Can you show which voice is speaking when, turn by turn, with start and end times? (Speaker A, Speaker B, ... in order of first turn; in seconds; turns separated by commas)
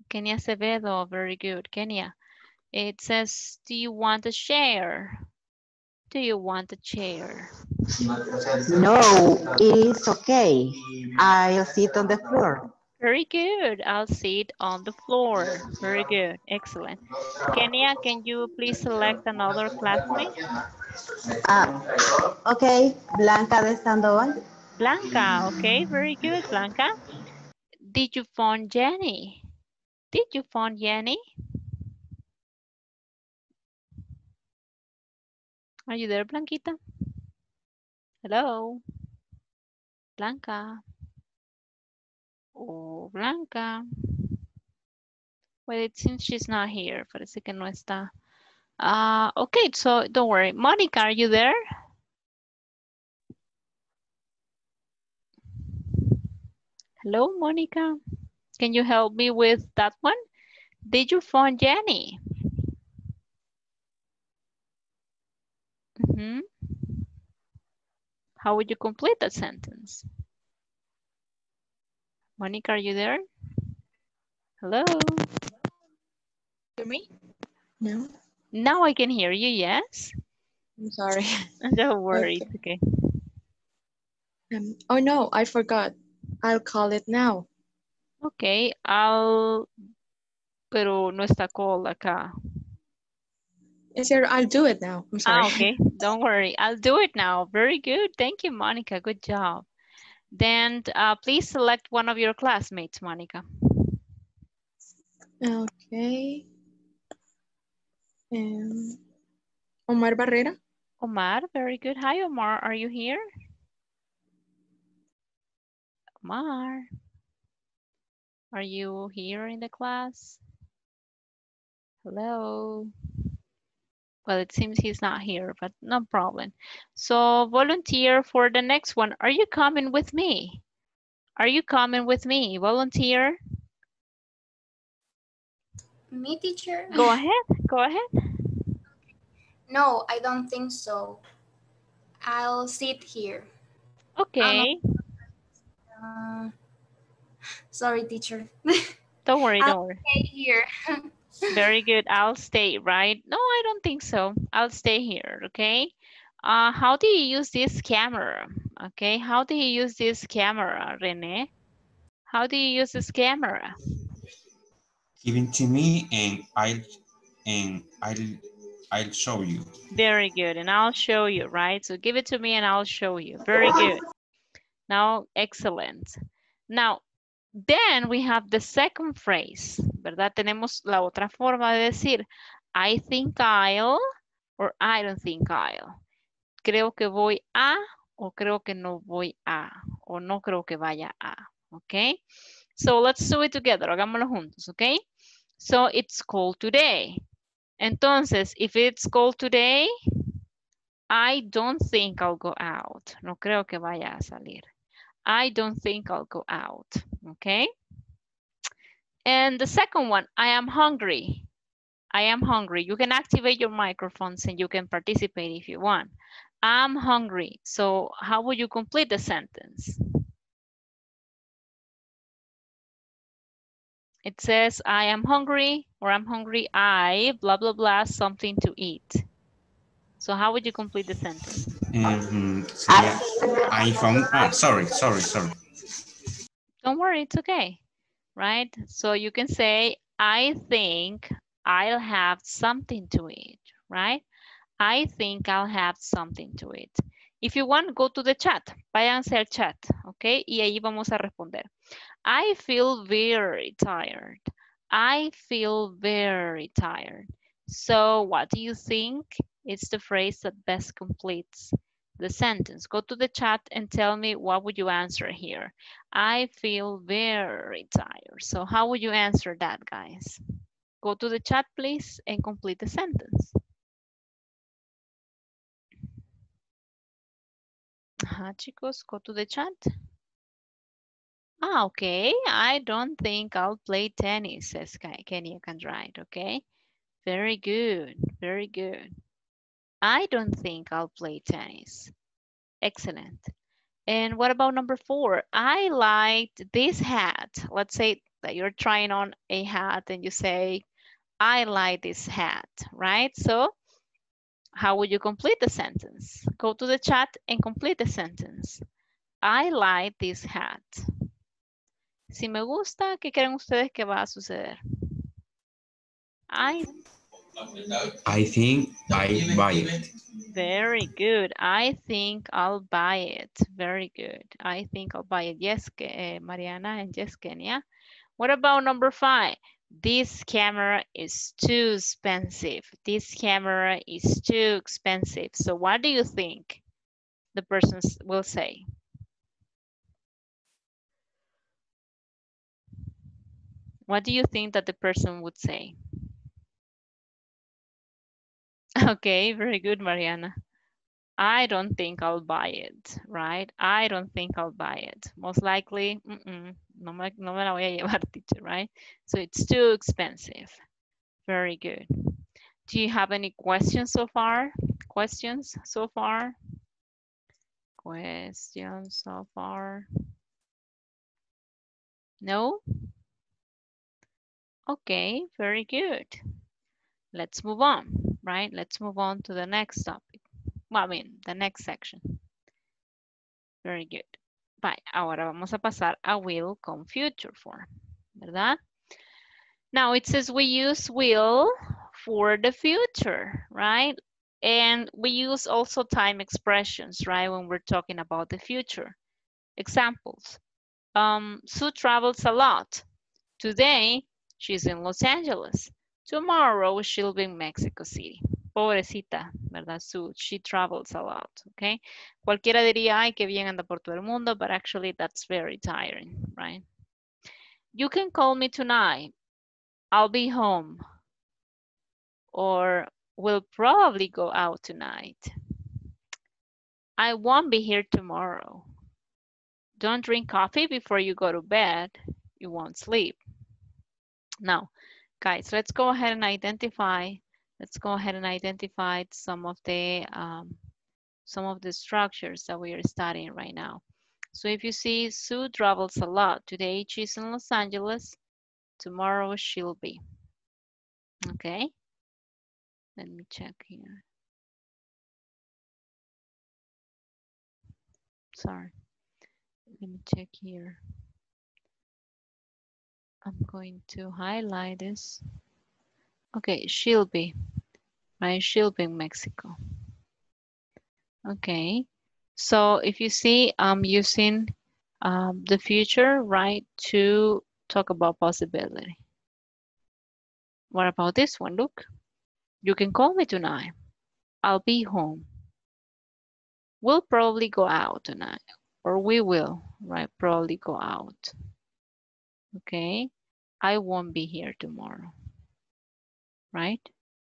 Speaker A: 0.1-2.1, Speaker A: 2.7-5.2, Speaker A: 6.1-7.5, Speaker B: 8.7-12.7, Speaker A: 13.0-20.3, Speaker B: 21.4-21.7, Speaker B: 22.4-24.4, Speaker A: 24.8-26.9, Speaker A: 27.9-29.4, Speaker A: 30.1-31.2, Speaker A: 35.9-36.8, Speaker A: 38.2-38.8, Speaker A: 40.2-40.8, Speaker A: 42.6-43.8, Speaker A: 45.7-48.1, Speaker A: 48.8-51.5, Speaker A: 57.0-58.0, Speaker A: 58.6-60.2, Speaker A: 60.9-62.2, Speaker A: 66.0-66.5, Speaker A: 68.4-70.0, Speaker A: 72.4-73.2, Speaker A: 74.6-75.2, Speaker C: 76.8-77.1, Speaker C: 77.8-78.1, Speaker A: 78.5-80.1, Speaker C: 80.8-81.4, Speaker A: 81.6-82.8, Speaker C: 82.1-82.5, Speaker C: 84.5-87.5, Speaker A: 88.2-89.7, Speaker A: 90.7-92.3, Speaker C: 94.0-95.7, Speaker A: 95.3-99.7, Speaker A: 100.3-103.4, Speaker C: 105.4-106.5, Speaker C: 108.3-109.0, Speaker C: 109.9-110.6, Speaker A: 111.0-113.2, Speaker A: 116.2-116.9, Speaker A: 118.5-120.4, Speaker A: 122.0-122.9, Speaker A: 124.3-130.6, Speaker A: 131.4-133.4, Speaker D: 136.1-137.1, Speaker A: 136.9-138.0, Speaker D: 139.7-141.2, Speaker D: 142.2-143.5, Speaker A: 144.2-144.8, Speaker D: 144.4-144.7, Speaker D: 145.9-146.5, Speaker D: 147.7-148.9, Speaker A: 149.2-150.0, Speaker D: 149.6-151.1, Speaker A: 151.5-161.5, Speaker A: 162.3-163.7, Speaker E: 165.2-166.8, Speaker E: 167.4-168.4, Speaker E: 168.9-169.7, Speaker A: 169.9-174.0, Speaker A: 174.9-176.2, Speaker A: 176.7-177.0, Speaker A: 177.6-184.0, Speaker A: 184.6-186.0, Speaker A: 186.6-192.2, Speaker A: 192.8-195.0, Speaker A: 195.6-197.2, Speaker A: 197.8-199.9, Speaker A: 201.1-204.7, Speaker A: 205.3-207.7, Speaker A: 209.3-211.5, Speaker A: 212.1-220.0, Speaker A: 224.2-229.2, Speaker A: 230.2-231.6, Speaker E: 231.9-235.5, Speaker A: 236.8-237.8, Speaker A: 238.4-244.2, Speaker A: 244.8-251.7, Speaker A: 252.3-270.4, Speaker A: 271.0-273.5, Speaker A: 278.3-279.9, Speaker A: 281.6-286.6, Speaker A: 287.2-289.1, Speaker A: 290.0-292.1, Speaker A: 292.8-293.5, Speaker A: 294.1-300.8, Speaker A: 301.4-303.7, Speaker A: 304.8-308.8, Speaker A: 309.4-311.0, Speaker A: 312.3-314.8, Speaker A: 316.5-317.0, Speaker E: 318.2-320.0, Speaker A: 320.5-327.8, Speaker A: 328.4-336.8, Speaker A: 337.5-338.8, Speaker A: 344.1-345.9, Speaker A: 349.0-350.5, Speaker A: 351.4-360.8, Speaker A: 361.5-362.1, Speaker A: 362.9-366.6, Speaker A: 368.0-370.1, Speaker A: 372.4-372.8, Speaker A: 374.9-376.4, Speaker A: 377.3-382.4, Speaker A: 383.8-387.9, Speaker A: 388.4-388.8, Speaker A: 389.9-399.2, Speaker A: 399.8-400.6, Speaker A: 401.2-403.0, Speaker A: 403.6-416.8, Speaker A: 417.9-419.3, Speaker A: 420.1-421.0, Speaker A: 422.5-425.5, Speaker A: 427.2-428.9, Speaker A: 430.0-433.4, Speaker A: 434.6-440.8, Speaker A: 441.5-444.0, Speaker A: 444.5-448.4, Speaker A: 449.0-450.2, Speaker A: 451.5-451.9, Speaker A: 453.2-454.2, Speaker A: 458.6-458.9, Speaker A: 460.0-461.0, Speaker A: 463.4-465.4, Speaker A: 466.6-467.5, Speaker A: 468.4-469.7, Speaker A: 471.5-479.2, Speaker A: 480.9-482.1, Speaker A: 482.8-483.9, Speaker A: 484.6-485.5, Speaker A: 487.0-491.5, Speaker A: 492.8-493.3, Speaker A: 493.8-495.3, Speaker A: 496.7-497.1